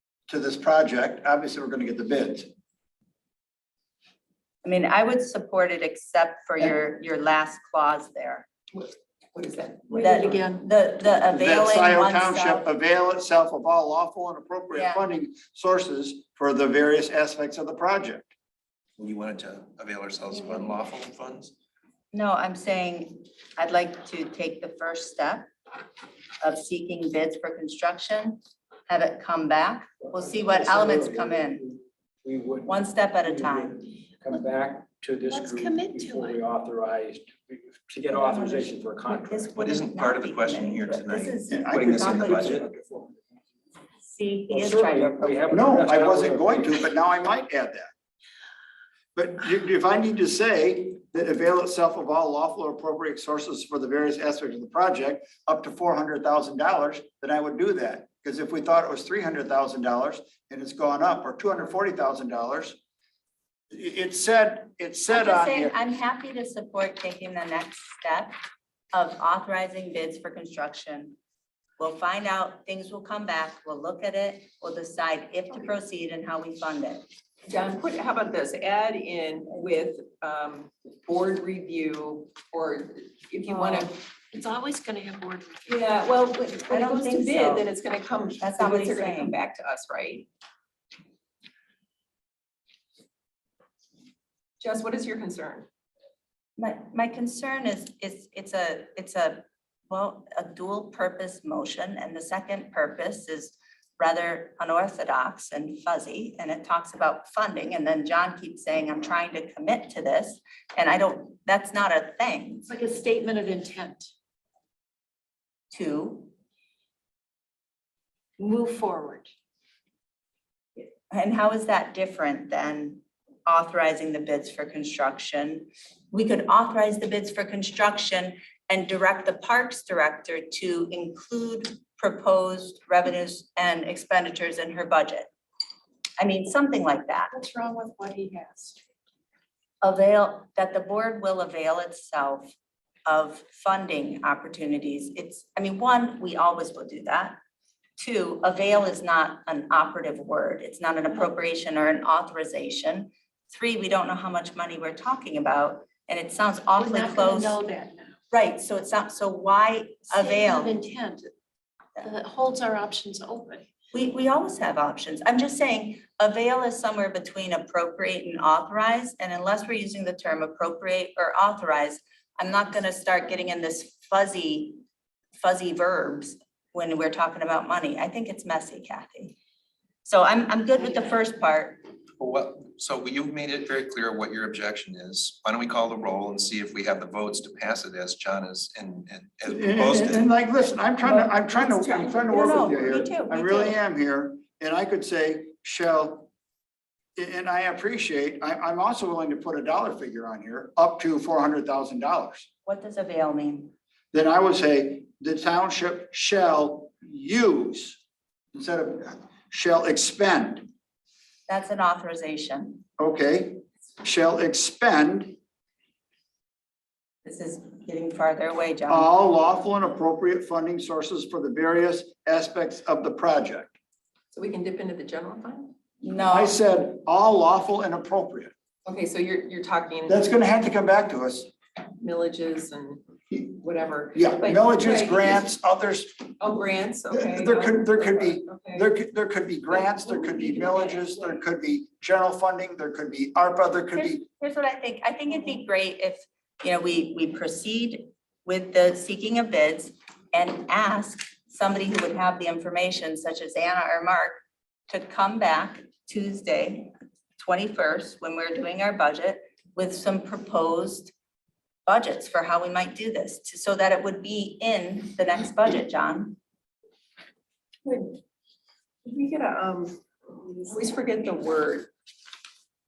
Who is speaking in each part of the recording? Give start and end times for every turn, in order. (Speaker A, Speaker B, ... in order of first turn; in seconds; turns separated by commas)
Speaker A: 0.3-2.5, Speaker B: 4.6-8.5, Speaker C: 8.7-10.4, Speaker D: 9.9-10.7, Speaker B: 10.0-12.7, Speaker A: 11.3-18.3, Speaker B: 14.7-15.1, Speaker E: 19.0-21.5, Speaker B: 22.1-25.5, Speaker B: 26.4-31.7, Speaker F: 30.1-39.5, Speaker B: 32.7-33.8, Speaker D: 35.3-36.4, Speaker B: 38.1-42.5, Speaker E: 39.5-42.7, Speaker A: 41.5-42.7, Speaker F: 42.4-43.2, Speaker B: 44.0-45.8, Speaker F: 44.5-46.7, Speaker A: 45.5-47.9, Speaker A: 49.1-62.8, Speaker A: 63.7-65.8, Speaker B: 65.1-68.4, Speaker B: 68.9-71.2, Speaker B: 71.8-77.0, Speaker C: 77.5-84.0, Speaker D: 84.3-85.9, Speaker C: 85.7-90.3, Speaker B: 86.7-87.7, Speaker B: 88.4-89.4, Speaker C: 94.6-95.7, Speaker B: 96.6-112.7, Speaker D: 112.7-114.1, Speaker B: 115.7-116.3, Speaker D: 118.4-119.3, Speaker B: 121.1-135.3, Speaker B: 136.2-137.3, Speaker D: 137.3-138.8, Speaker B: 139.8-142.5, Speaker B: 143.1-147.4, Speaker B: 148.0-157.6, Speaker D: 156.7-158.2, Speaker B: 158.3-160.8, Speaker D: 160.1-161.3, Speaker D: 162.0-163.7, Speaker B: 163.9-174.8, Speaker B: 175.4-179.3, Speaker B: 180.1-181.8, Speaker E: 182.2-190.3, Speaker A: 189.5-196.3, Speaker C: 191.0-192.2, Speaker B: 191.8-193.8, Speaker A: 197.2-202.5, Speaker B: 202.7-203.7, Speaker A: 204.1-208.0, Speaker A: 208.5-210.7, Speaker B: 211.5-212.8, Speaker A: 213.0-215.4, Speaker B: 217.2-219.1, Speaker A: 218.9-223.7, Speaker C: 224.3-225.7, Speaker B: 226.0-226.6, Speaker A: 226.3-228.5, Speaker C: 228.8-230.2, Speaker A: 230.1-231.5, Speaker C: 232.0-235.5, Speaker A: 234.2-236.3, Speaker C: 236.4-238.9, Speaker A: 237.1-244.2, Speaker C: 239.7-241.2, Speaker B: 243.9-261.1, Speaker B: 261.9-266.4, Speaker C: 267.9-268.2, Speaker C: 269.1-271.9